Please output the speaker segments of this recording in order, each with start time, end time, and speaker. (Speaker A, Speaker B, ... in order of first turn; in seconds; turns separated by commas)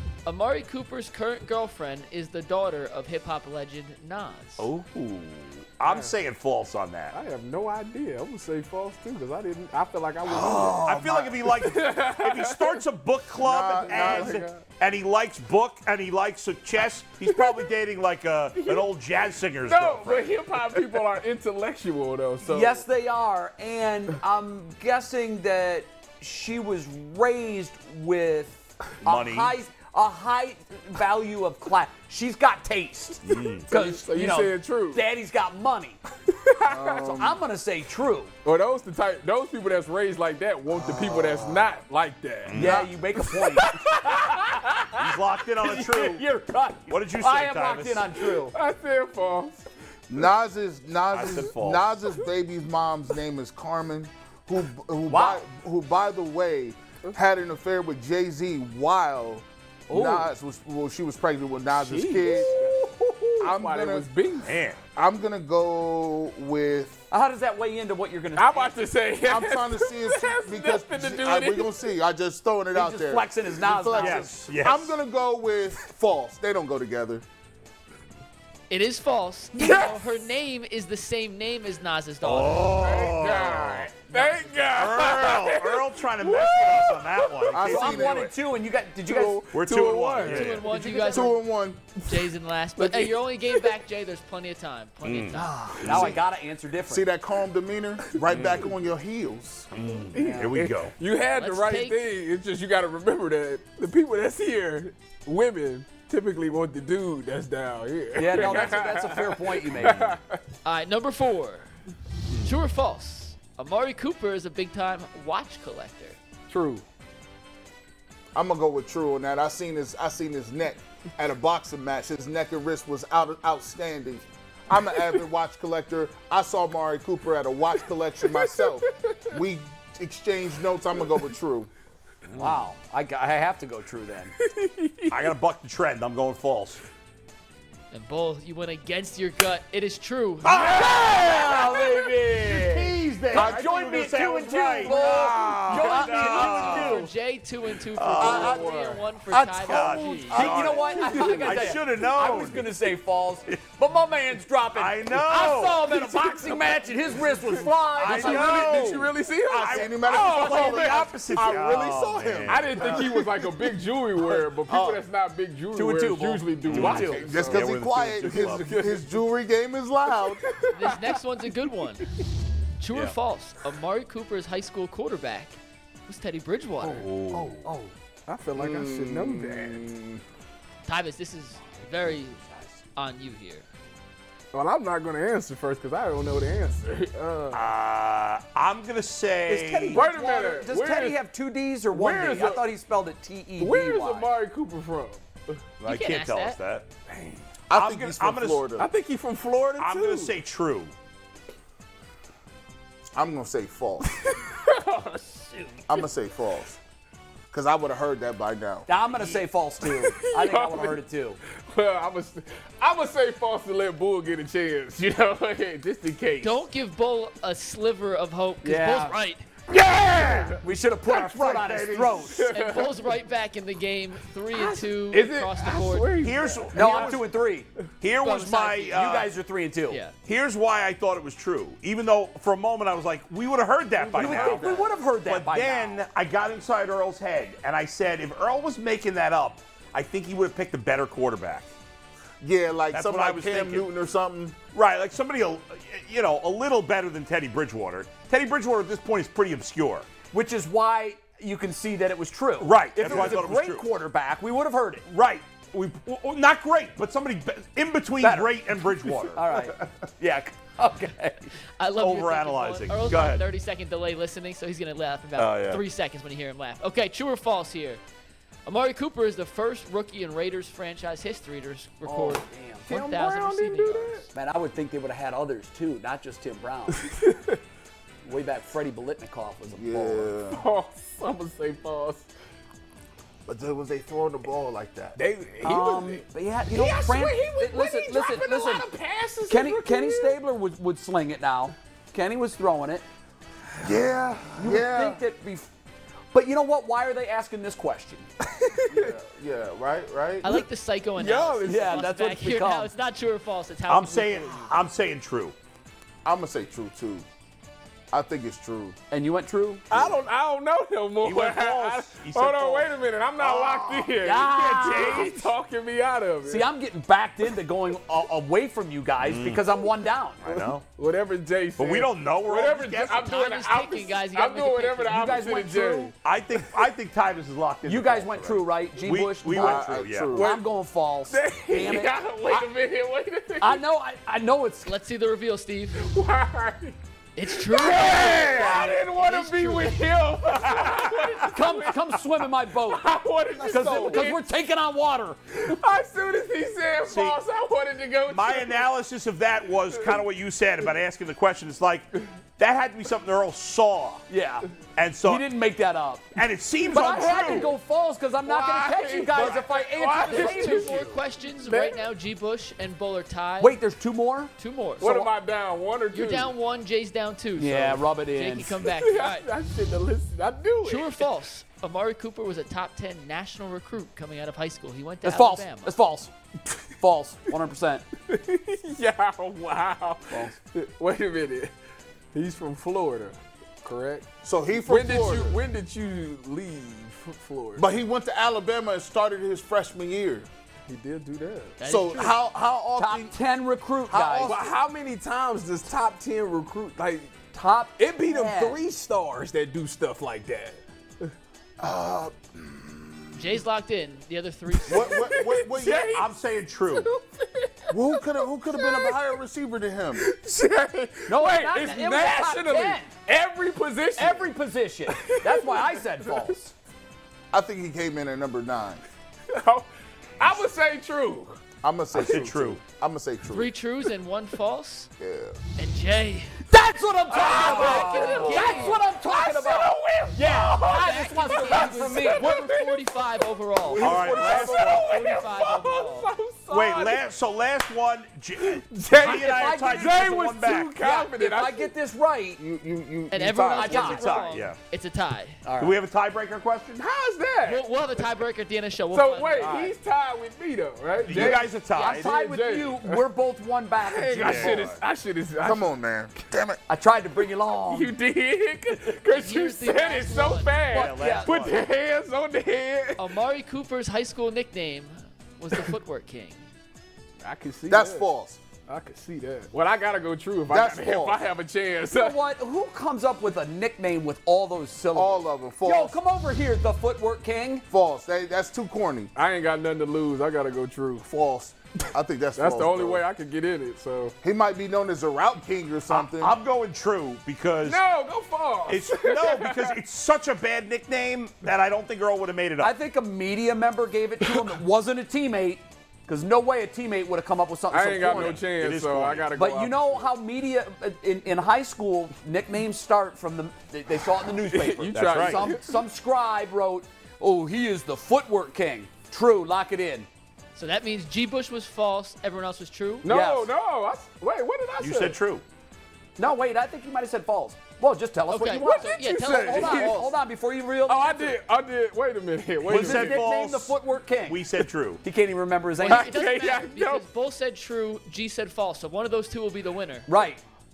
Speaker A: 0.2-4.7, Speaker B: 4.6-7.2, Speaker C: 5.8-6.1, Speaker C: 7.1-10.9, Speaker D: 10.3-11.3, Speaker B: 10.7-20.5, Speaker C: 11.5-12.8, Speaker E: 13.4-14.4, Speaker C: 13.8-14.7, Speaker C: 18.6-18.9, Speaker C: 19.6-22.8, Speaker D: 22.4-36.0, Speaker B: 29.0-29.5, Speaker B: 33.2-33.7, Speaker C: 33.7-35.0, Speaker C: 36.3-37.1, Speaker E: 36.6-37.4, Speaker D: 37.0-38.3, Speaker C: 38.5-45.0, Speaker E: 40.7-41.7, Speaker B: 42.5-42.9, Speaker D: 42.5-45.0, Speaker B: 45.0-46.2, Speaker D: 45.6-48.6, Speaker B: 46.9-48.2, Speaker C: 48.5-49.6, Speaker E: 50.1-62.6, Speaker B: 51.1-51.9, Speaker D: 55.1-55.4, Speaker D: 59.9-60.3, Speaker C: 61.8-64.6, Speaker D: 62.2-62.9, Speaker E: 63.4-64.1, Speaker B: 64.4-64.8, Speaker E: 65.0-67.0, Speaker D: 67.1-68.8, Speaker C: 68.3-71.8, Speaker E: 69.3-77.2, Speaker D: 72.7-74.3, Speaker B: 74.0-74.9, Speaker A: 78.7-83.0, Speaker D: 79.6-79.9, Speaker C: 79.6-79.9, Speaker B: 82.2-83.9, Speaker C: 82.7-87.5, Speaker A: 84.1-84.7, Speaker B: 84.8-88.2, Speaker E: 87.5-88.3, Speaker D: 87.6-89.5, Speaker C: 89.1-91.3, Speaker B: 89.5-90.7, Speaker A: 90.2-91.4, Speaker E: 91.1-91.8, Speaker A: 92.0-96.1, Speaker C: 92.8-93.6, Speaker B: 95.0-96.2, Speaker D: 95.3-97.1, Speaker E: 96.9-99.7, Speaker B: 98.3-98.7, Speaker B: 99.7-100.9, Speaker C: 100.1-110.4, Speaker D: 100.2-100.6, Speaker A: 101.4-102.0, Speaker D: 108.2-110.1, Speaker B: 108.3-108.8, Speaker B: 109.8-110.2, Speaker A: 110.7-111.7, Speaker A: 112.4-116.2, Speaker C: 116.5-116.8, Speaker E: 118.3-131.7, Speaker C: 128.3-129.3, Speaker D: 132.4-134.3, Speaker C: 134.4-135.2, Speaker B: 135.1-136.8, Speaker A: 137.9-140.5, Speaker B: 140.4-147.1, Speaker D: 140.5-146.8, Speaker E: 143.3-143.6, Speaker A: 144.9-150.7, Speaker E: 144.9-145.2, Speaker B: 148.0-148.7, Speaker D: 148.2-148.6, Speaker C: 148.3-149.0, Speaker B: 149.6-152.7, Speaker E: 149.6-150.9, Speaker D: 150.3-159.0, Speaker C: 150.9-151.8, Speaker B: 154.7-155.8, Speaker C: 156.0-156.7, Speaker C: 157.3-169.1, Speaker B: 158.0-163.2, Speaker E: 159.5-163.3, Speaker E: 164.2-165.0, Speaker D: 165.7-167.2, Speaker B: 166.7-168.8, Speaker E: 167.0-170.4, Speaker C: 170.3-171.2, Speaker A: 170.7-172.1, Speaker A: 172.8-177.1, Speaker B: 176.9-177.7, Speaker E: 177.3-177.9, Speaker C: 178.3-179.9, Speaker E: 178.6-180.2, Speaker A: 180.8-183.7, Speaker C: 184.5-187.6, Speaker B: 187.5-190.1, Speaker D: 189.5-194.3, Speaker C: 189.9-191.2, Speaker C: 191.9-192.7, Speaker C: 193.6-195.6, Speaker B: 195.8-196.9, Speaker A: 195.8-196.6, Speaker E: 197.7-198.9, Speaker B: 197.7-198.7, Speaker C: 198.7-200.3, Speaker B: 199.8-200.9, Speaker E: 203.1-204.2, Speaker C: 204.1-205.9, Speaker E: 205.9-206.7, Speaker E: 207.5-208.9, Speaker D: 208.9-211.4, Speaker C: 209.8-211.0, Speaker C: 211.6-216.6, Speaker A: 216.4-219.5, Speaker D: 218.6-219.2, Speaker B: 219.8-222.5, Speaker C: 220.0-220.6, Speaker D: 220.5-222.5, Speaker C: 222.3-223.1, Speaker A: 222.5-226.2, Speaker C: 224.5-227.2, Speaker B: 226.2-227.2, Speaker D: 226.7-227.7, Speaker B: 228.0-229.3, Speaker A: 228.2-228.9, Speaker D: 228.2-230.0, Speaker A: 229.9-230.2, Speaker B: 230.2-241.7, Speaker E: 234.0-234.9, Speaker D: 234.1-236.1, Speaker E: 242.4-244.6, Speaker B: 242.9-243.9, Speaker B: 244.7-250.1, Speaker D: 250.3-255.1, Speaker B: 252.6-253.9, Speaker E: 253.0-253.4, Speaker B: 255.1-259.4, Speaker D: 258.2-258.6, Speaker D: 259.3-261.5, Speaker A: 261.8-268.0, Speaker B: 262.0-263.4, Speaker B: 265.4-265.8, Speaker A: 268.7-274.3, Speaker D: 272.0-272.9, Speaker C: 272.9-274.3, Speaker D: 274.3-277.1, Speaker C: 277.0-277.6, Speaker D: 278.2-280.3, Speaker E: 279.7-280.6, Speaker C: 280.5-282.3, Speaker E: 283.5-285.2, Speaker C: 285.2-290.4, Speaker D: 285.6-288.9, Speaker D: 289.5-293.1, Speaker E: 293.8-295.2, Speaker D: 294.6-295.7, Speaker D: 296.3-298.3, Speaker E: 298.9-300.5, Speaker A: 300.4-304.7, Speaker C: 301.2-302.1, Speaker D: 301.6-302.9, Speaker B: 303.9-305.6, Speaker E: 306.2-307.3, Speaker E: 308.1-309.0, Speaker D: 309.1-309.9, Speaker C: 309.9-316.7, Speaker B: 309.9-310.2, Speaker B: 311.2-315.5, Speaker D: 314.2-315.5, Speaker D: 316.5-320.4, Speaker B: 319.2-319.7, Speaker B: 320.4-320.8, Speaker C: 320.5-326.1, Speaker B: 321.8-323.3, Speaker A: 323.1-325.3, Speaker D: 325.1-326.1, Speaker B: 326.2-330.4, Speaker D: 327.9-332.7, Speaker E: 329.5-330.5, Speaker C: 330.4-330.6, Speaker C: 331.3-333.8, Speaker D: 333.6-334.9, Speaker A: 334.9-336.1, Speaker C: 336.0-337.0, Speaker A: 337.4-340.0, Speaker C: 337.5-342.2, Speaker D: 341.5-345.4, Speaker C: 342.9-344.4, Speaker E: 343.6-344.3, Speaker C: 345.5-348.9, Speaker B: 347.1-347.4, Speaker B: 348.2-354.2, Speaker D: 354.3-354.7, Speaker B: 355.0-355.5, Speaker D: 355.2-356.3, Speaker B: 356.4-357.7, Speaker D: 356.9-361.1, Speaker C: 357.0-357.7, Speaker C: 358.4-362.0, Speaker A: 360.3-363.8, Speaker D: 363.6-365.3, Speaker A: 364.6-365.1, Speaker C: 365.0-366.5, Speaker A: 366.1-369.5, Speaker D: 367.6-368.8, Speaker C: 368.9-371.3, Speaker A: 370.8-375.9, Speaker D: 375.2-376.3, Speaker D: 377.0-378.1, Speaker C: 378.3-381.7, Speaker D: 380.3-380.6, Speaker C: 382.3-384.3, Speaker E: 384.4-385.6, Speaker C: 384.8-387.9, Speaker E: 387.8-390.5, Speaker C: 390.9-391.8, Speaker A: 391.8-392.4, Speaker E: 391.9-393.4, Speaker D: 393.0-394.6, Speaker E: 394.1-394.6, Speaker C: 394.3-401.3, Speaker D: 397.5-398.8, Speaker E: 401.8-403.4, Speaker A: 403.4-405.4, Speaker C: 404.8-406.3, Speaker E: 404.9-406.2, Speaker B: 405.8-407.1, Speaker C: 406.9-409.2, Speaker E: 407.9-410.3, Speaker C: 410.2-414.5, Speaker D: 411.3-413.1, Speaker D: 414.2-416.7, Speaker C: 415.1-416.6, Speaker E: 417.5-419.0, Speaker C: 419.5-419.9, Speaker C: 420.4-421.6, Speaker E: 421.8-423.7, Speaker B: 422.1-422.8, Speaker A: 423.5-425.1, Speaker E: 425.2-425.6, Speaker A: 425.8-426.6, Speaker D: 426.7-432.6, Speaker C: 427.3-433.2, Speaker A: 427.3-429.0, Speaker A: 430.8-436.3, Speaker C: 433.8-437.2, Speaker B: 434.0-435.2, Speaker B: 436.7-441.0, Speaker C: 438.7-441.9, Speaker D: 439.2-442.6, Speaker E: 442.6-443.7, Speaker A: 443.3-445.6, Speaker C: 443.3-443.9, Speaker D: 443.7-444.4, Speaker B: 443.9-444.8, Speaker D: 445.6-446.0, Speaker B: 445.8-447.1, Speaker C: 447.0-447.9, Speaker A: 447.6-449.8, Speaker C: 449.1-453.2, Speaker D: 449.6-449.9, Speaker B: 451.2-452.4, Speaker D: 451.3-455.0, Speaker C: 454.0-455.9, Speaker B: 454.4-455.0, Speaker E: 455.6-456.8, Speaker D: 456.9-458.1, Speaker C: 457.9-463.3, Speaker A: 459.3-460.9, Speaker B: 460.9-461.9, Speaker D: 460.9-461.6, Speaker A: 463.2-466.6, Speaker C: 467.4-468.3, Speaker E: 467.9-468.6, Speaker C: 468.9-472.4, Speaker E: 470.7-471.4, Speaker D: 472.1-477.9, Speaker E: 475.1-476.2, Speaker E: 477.9-479.3, Speaker C: 479.4-481.3, Speaker E: 481.3-483.2, Speaker C: 482.6-484.4, Speaker E: 484.4-486.6, Speaker B: 486.1-488.0, Speaker C: 487.8-490.0, Speaker B: 488.9-492.9, Speaker D: 492.8-498.6, Speaker C: 494.4-494.8, Speaker C: 497.9-500.3, Speaker B: 498.2-499.5, Speaker D: 499.6-510.3, Speaker C: 504.7-506.0, Speaker B: 505.1-505.6, Speaker A: 510.8-513.3, Speaker C: 513.2-515.4, Speaker D: 513.3-513.7, Speaker B: 515.0-515.6, Speaker D: 516.4-521.6, Speaker A: 518.5-520.2, Speaker C: 518.7-520.3, Speaker E: 519.9-520.3, Speaker C: 521.1-523.5, Speaker B: 522.8-525.2, Speaker D: 522.9-524.6, Speaker D: 525.2-526.4, Speaker A: 526.0-530.3, Speaker C: 526.0-527.2, Speaker D: 530.3-530.6